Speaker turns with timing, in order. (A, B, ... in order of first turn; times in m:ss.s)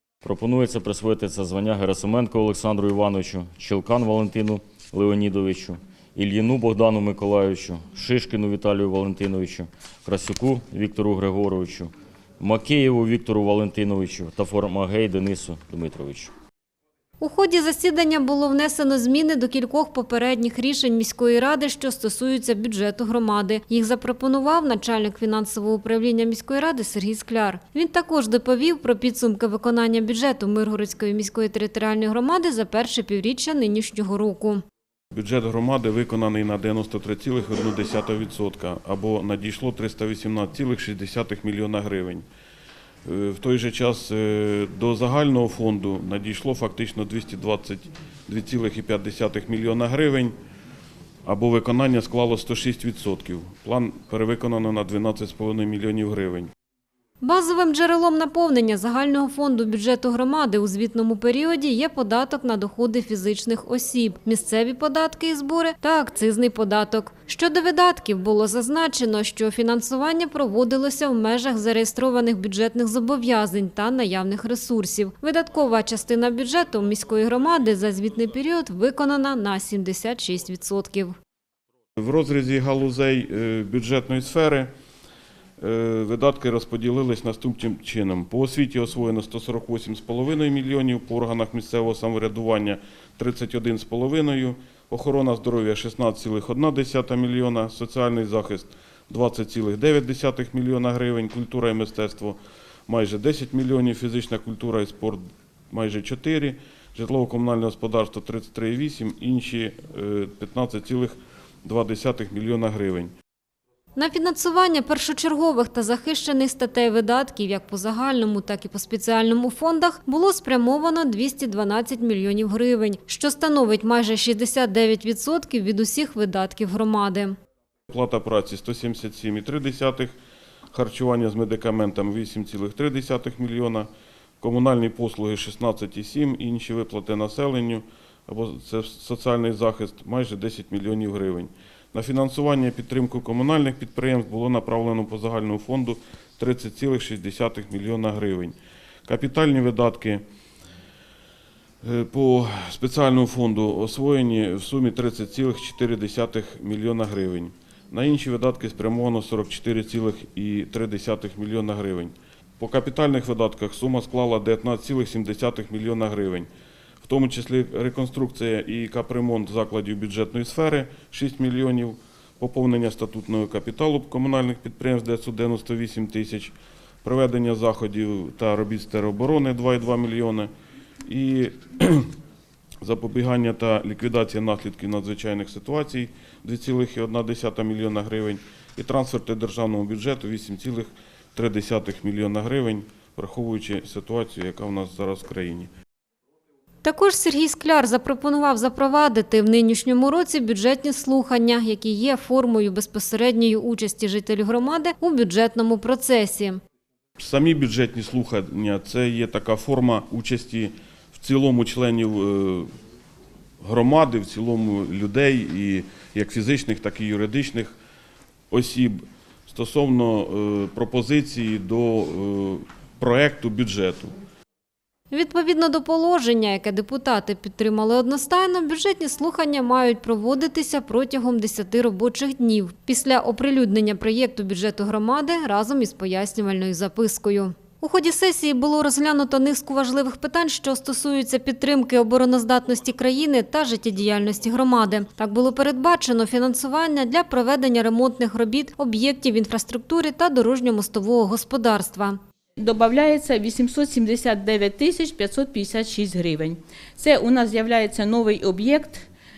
0:00.2-0:16.3 A
0:17.2-0:34.6 B
0:35.1-0:42.2 C
0:43.0-0:50.3 C
0:51.2-0:56.5 C
0:57.2-1:21.2 B
1:22.0-1:24.7 C
1:25.6-1:53.1 C
1:54.0-2:07.4 B
2:07.9-2:10.2 C
2:10.7-2:13.9 C
2:14.4-2:30.2 C
2:31.8-2:46.5 C
2:47.0-3:00.5 C
3:01.0-3:02.1 C
3:02.8-3:15.7 C
3:16.8-3:26.6 B
3:27.2-3:32.7 C
3:33.6-3:37.8 C
3:38.5-3:44.1 C
3:45.1-4:12.2 B
4:12.6-4:19.0 D